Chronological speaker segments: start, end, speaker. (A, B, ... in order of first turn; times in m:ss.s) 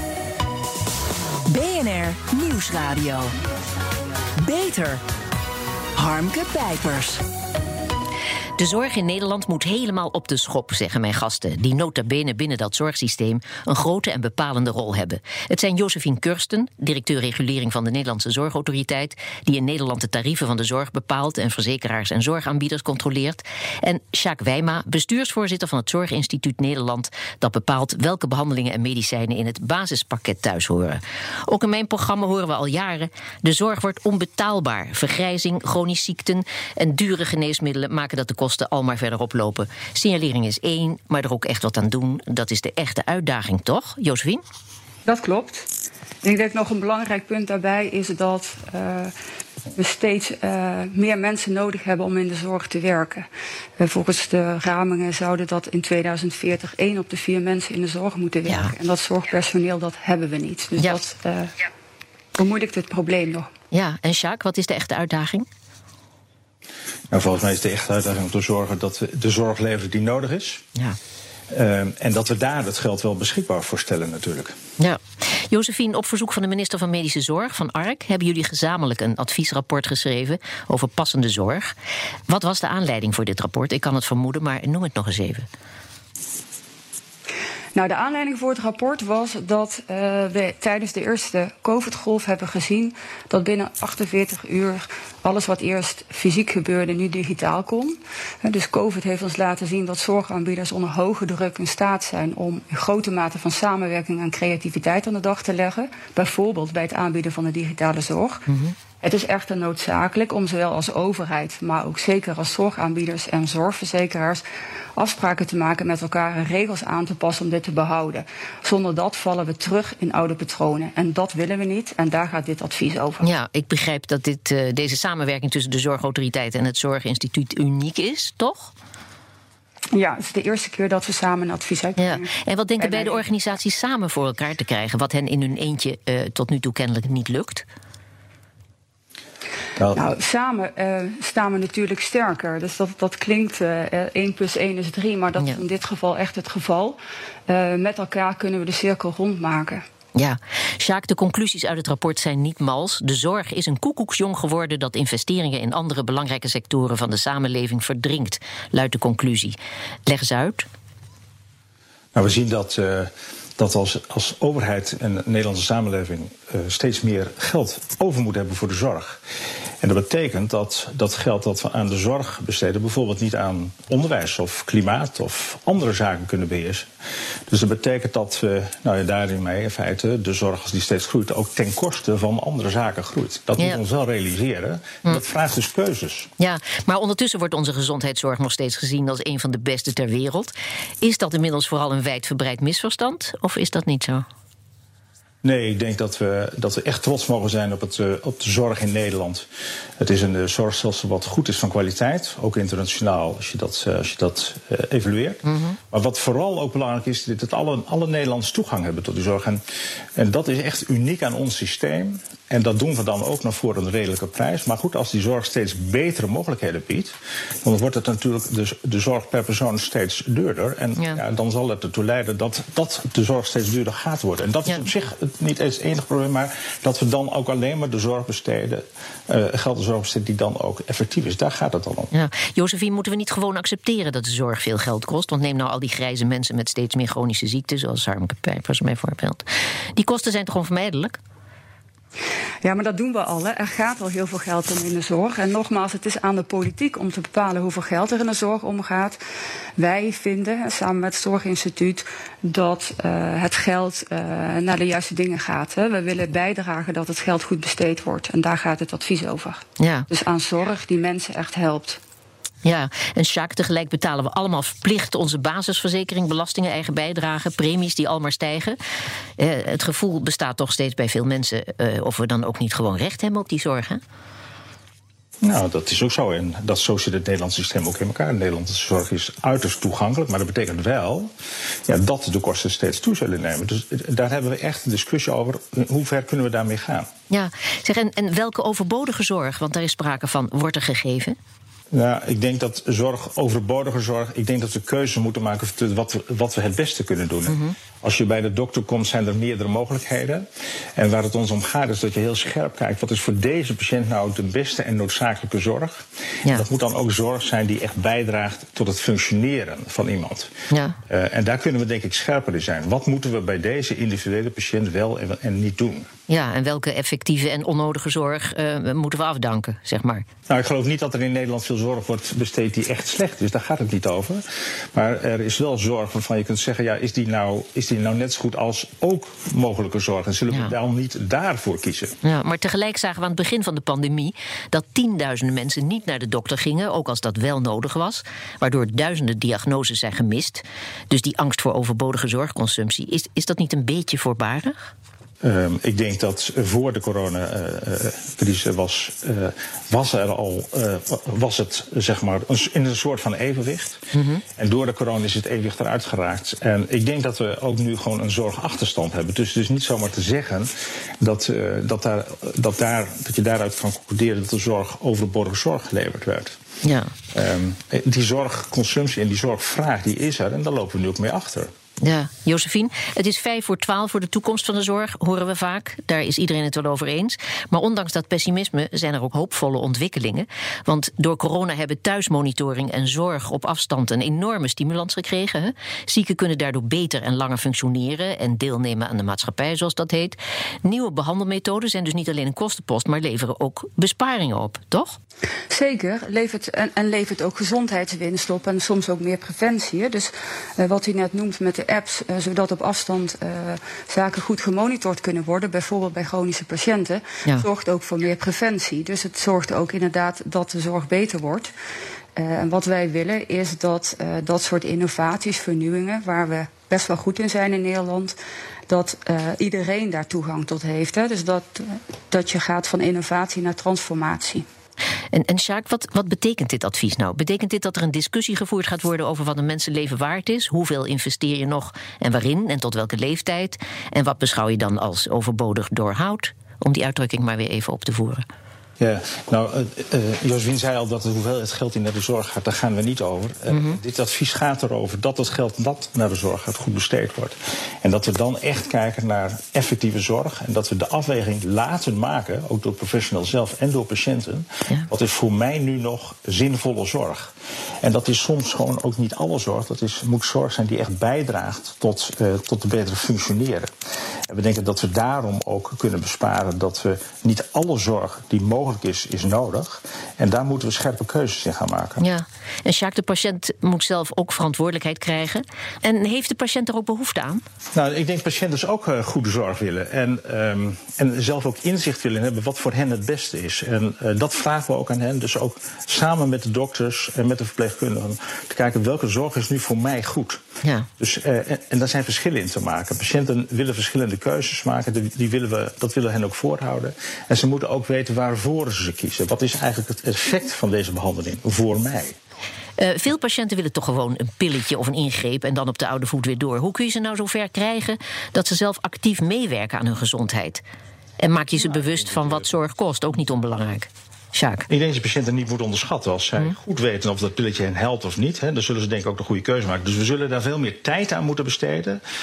0:01.5-0:03.4 A
0:04.4-0:05.0 A
0:06.0-0:07.2 A
0:08.6-0:44.4 B
0:45.0-0:45.7 C
0:46.2-0:49.1 C
0:49.7-0:53.3 C
0:53.8-1:01.5 C
0:58.5-0:58.7 B
1:02.4-1:03.5 C
1:03.7-1:05.5 B
1:07.1-1:10.6 D
1:11.5-1:14.6 D
1:14.8-1:21.7 B
1:22.3-1:25.5 B
1:27.8-1:48.5 C
1:48.5-1:48.8 B
1:49.0-1:54.4 C
1:55.0-2:03.3 C
2:03.2-2:08.7 B
2:09.9-2:13.2 C
2:12.0-2:17.7 B
2:19.9-2:29.8 C
2:30.2-2:40.7 B
2:42.1-2:49.2 D
2:49.8-2:56.9 D
2:57.5-3:06.3 D
3:06.4-3:14.2 B
3:15.4-3:19.5 D
3:20.0-3:29.6 D
3:25.4-3:25.8 B
3:30.2-3:52.1 D
3:52.1-3:59.4 B
4:00.0-4:01.2 B
4:02.6-4:09.2 C
4:09.8-4:22.0 C
4:19.8-4:20.1 B
4:22.6-4:28.8 B
4:29.4-4:34.0 B
4:35.4-4:41.3 D
4:41.9-4:47.1 D
4:47.3-4:51.4 B
4:51.9-5:00.4 D
4:57.5-4:57.8 B
5:01.0-5:10.5 D
5:10.7-5:11.0 B
5:11.1-5:16.1 D
5:16.3-5:20.2 B
5:20.5-5:32.2 D
5:32.2-5:44.9 B
5:45.4-5:54.0 D
5:54.1-5:54.4 B
5:54.6-6:00.7 D
6:01.2-6:06.6 D
6:06.8-6:07.1 B
6:07.3-6:11.7 D
6:12.0-6:35.2 B
6:35.7-6:51.7 C
6:52.4-6:58.4 C
6:58.9-7:04.7 C
7:05.3-7:18.4 B
7:19.0-7:43.9 D
7:23.7-7:24.0 B
7:44.5-7:52.2 D
7:52.2-7:57.6 B
7:57.9-8:10.6 D
8:11.2-8:22.4 D
8:23.0-8:30.8 B
8:31.4-8:34.9 B
8:34.9-8:42.2 D